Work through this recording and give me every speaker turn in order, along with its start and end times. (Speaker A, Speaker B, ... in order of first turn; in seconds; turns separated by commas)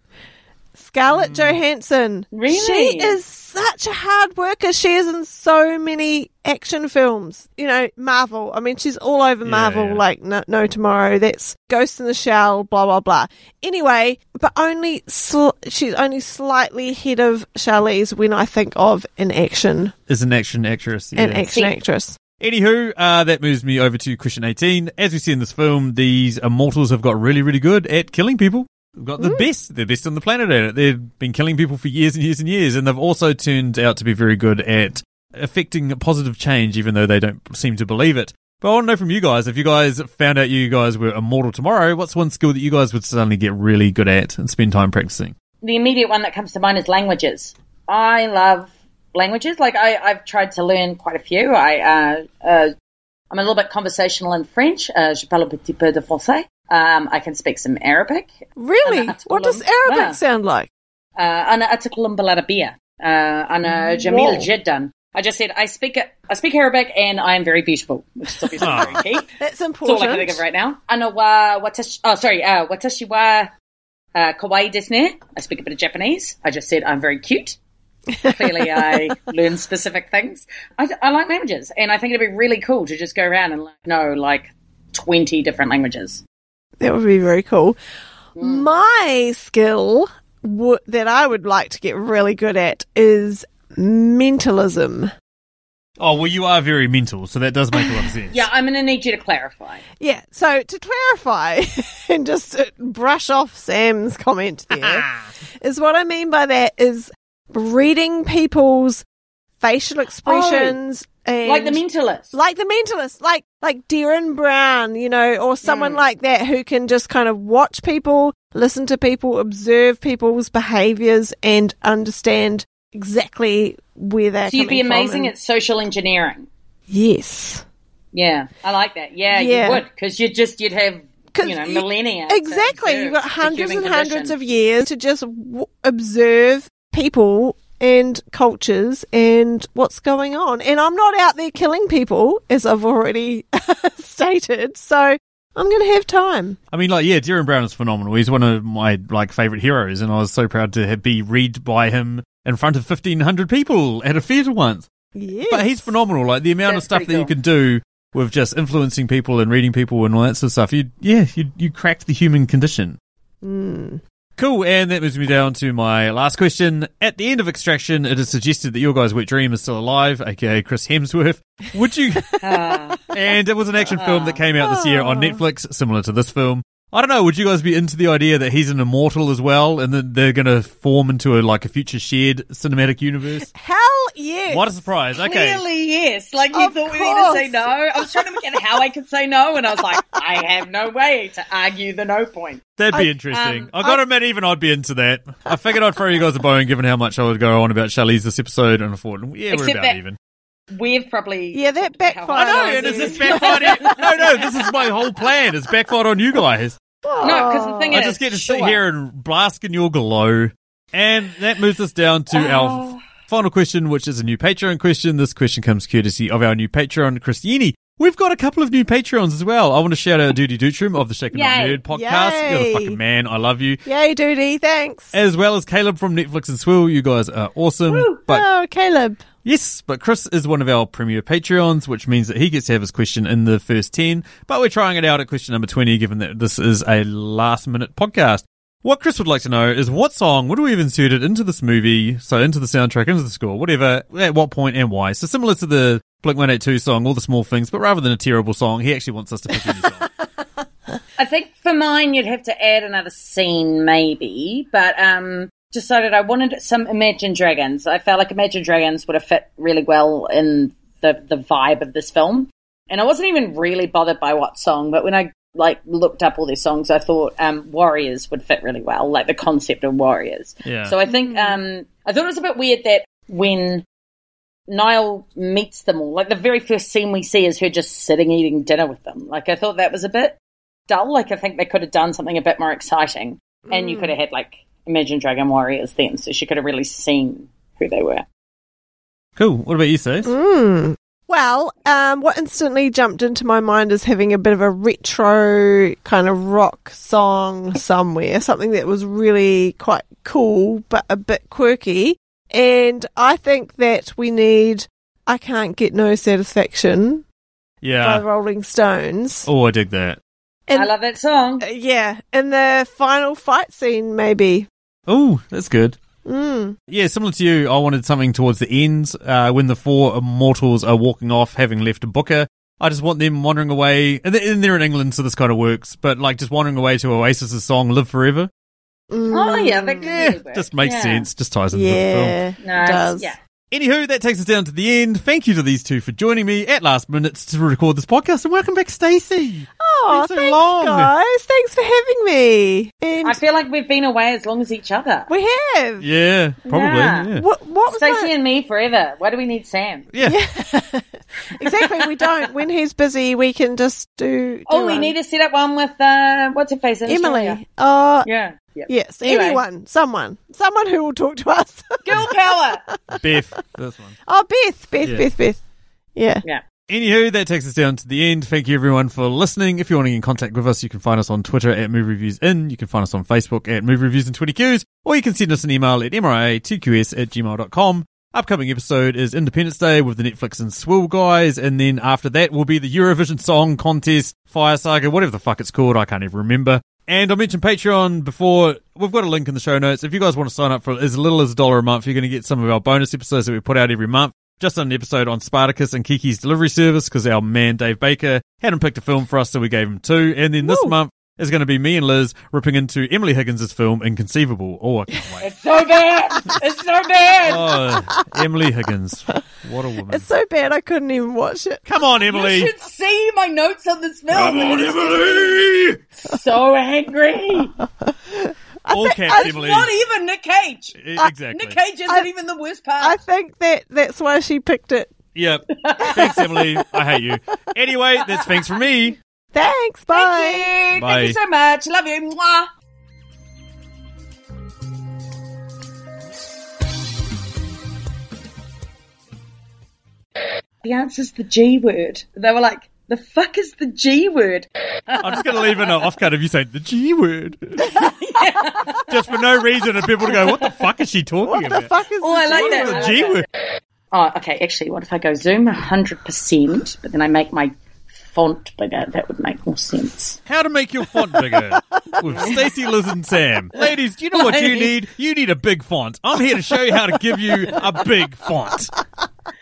Speaker A: 0.8-19.9, Speaker B: 1.1-1.6, Speaker C: 2.3-3.2, Speaker B: 9.4-10.0, Speaker B: 20.1-21.5, Speaker A: 21.1-22.2, Speaker C: 21.5-21.7, Speaker B: 22.4-45.3, Speaker A: 29.2-29.4, Speaker C: 45.6-52.7, Speaker C: 53.3-60.2, Speaker A: 58.5-60.7, Speaker C: 61.2-69.3, Speaker A: 63.6-64.5, Speaker B: 68.6-69.0, Speaker A: 68.6-70.4, Speaker C: 69.8-73.5, Speaker C: 74.1-77.6, Speaker A: 78.1-79.1, Speaker C: 78.2-86.2, Speaker A: 86.8-87.8, Speaker C: 88.4-88.7, Speaker A: 88.4-95.1, Speaker B: 96.0-98.5, Speaker C: 98.3-99.8, Speaker A: 100.0-105.0, Speaker B: 104.7-105.2, Speaker A: 105.6-109.0, Speaker A: 109.6-111.8, Speaker C: 110.2-110.8, Speaker C: 111.4-112.3, Speaker A: 112.3-125.3, Speaker C: 115.6-116.0, Speaker C: 124.5-126.5, Speaker A: 126.9-127.6, Speaker C: 128.1-134.3, Speaker A: 129.3-129.8, Speaker A: 131.3-146.6, Speaker B: 146.7-154.9, Speaker A: 155.1-155.9, Speaker B: 155.5-163.0, Speaker C: 156.7-157.3, Speaker A: 163.4-164.0, Speaker B: 164.4-172.4, Speaker C: 172.4-173.0, Speaker B: 173.1-183.5, Speaker C: 173.9-174.4, Speaker A: 174.6-175.4, Speaker A: 183.5-184.6, Speaker B: 184.5-185.6, Speaker C: 185.2-192.6, Speaker A: 186.5-188.1, Speaker B: 192.8-200.2, Speaker C: 193.3-193.7, Speaker C: 199.5-200.0, Speaker C: 200.7-204.4, Speaker A: 201.5-203.9, Speaker B: 202.3-206.8, Speaker A: 207.0-207.9, Speaker C: 207.2-208.8, Speaker B: 207.9-223.8, Speaker C: 212.3-213.0, Speaker C: 221.3-221.8, Speaker A: 221.9-223.0, Speaker A: 223.9-225.1, Speaker B: 225.1-228.4, Speaker C: 227.9-228.2, Speaker A: 228.3-229.2, Speaker B: 229.4-250.1, Speaker C: 251.2-273.8, Speaker B: 270.6-270.9, Speaker A: 271.1-271.6, Speaker C: 274.7-280.4, Speaker C: 280.9-288.2, Speaker A: 283.7-284.1, Speaker B: 289.4-290.3, Speaker A: 290.2-307.2, Speaker B: 307.8-308.2, Speaker A: 308.0-309.5, Speaker B: 309.4-310.2, Speaker C: 310.7-311.6, Speaker A: 311.6-314.7, Speaker B: 315.1-316.0, Speaker A: 316.2-316.8, Speaker B: 316.9-328.5, Speaker A: 329.1-330.1, Speaker C: 329.3-331.3, Speaker B: 330.0-332.4, Speaker A: 331.7-333.3, Speaker C: 332.6-333.4, Speaker B: 333.7-341.1, Speaker A: 339.8-343.4, Speaker C: 343.2-345.3, Speaker A: 345.3-346.0, Speaker B: 346.0-347.4, Speaker C: 346.6-347.3, Speaker A: 347.3-348.3, Speaker C: 347.9-350.1, Speaker B: 350.1-350.4, Speaker A: 350.2-355.1, Speaker C: 351.7-352.2, Speaker C: 354.7-357.6, Speaker A: 357.1-358.3, Speaker C: 358.2-359.6, Speaker A: 358.9-362.3, Speaker C: 362.0-362.8, Speaker A: 362.9-363.4, Speaker B: 363.1-364.1, Speaker A: 364.2-365.6, Speaker A: 366.1-366.4, Speaker B: 366.9-405.5, Speaker A: 400.6-400.9, Speaker C: 405.4-407.8, Speaker B: 407.4-410.2, Speaker A: 410.1-411.8, Speaker B: 411.9-412.7, Speaker C: 412.2-415.5, Speaker B: 414.3-416.0, Speaker C: 416.2-417.8, Speaker A: 418.0-419.6, Speaker B: 418.9-419.9, Speaker C: 419.3-421.0, Speaker B: 421.0-421.8, Speaker C: 421.5-423.2, Speaker A: 423.0-425.1, Speaker B: 425.3-429.1, Speaker C: 425.7-426.5, Speaker A: 426.1-426.4, Speaker A: 429.5-430.7, Speaker C: 430.1-432.7, Speaker B: 430.9-431.4, Speaker C: 440.8-445.9, Speaker B: 445.2-448.0, Speaker C: 447.9-449.1, Speaker B: 449.0-451.9, Speaker A: 451.4-453.1, Speaker C: 452.2-453.4, Speaker B: 452.5-453.4, Speaker C: 454.1-460.4, Speaker B: 460.5-468.9, Speaker C: 464.3-464.9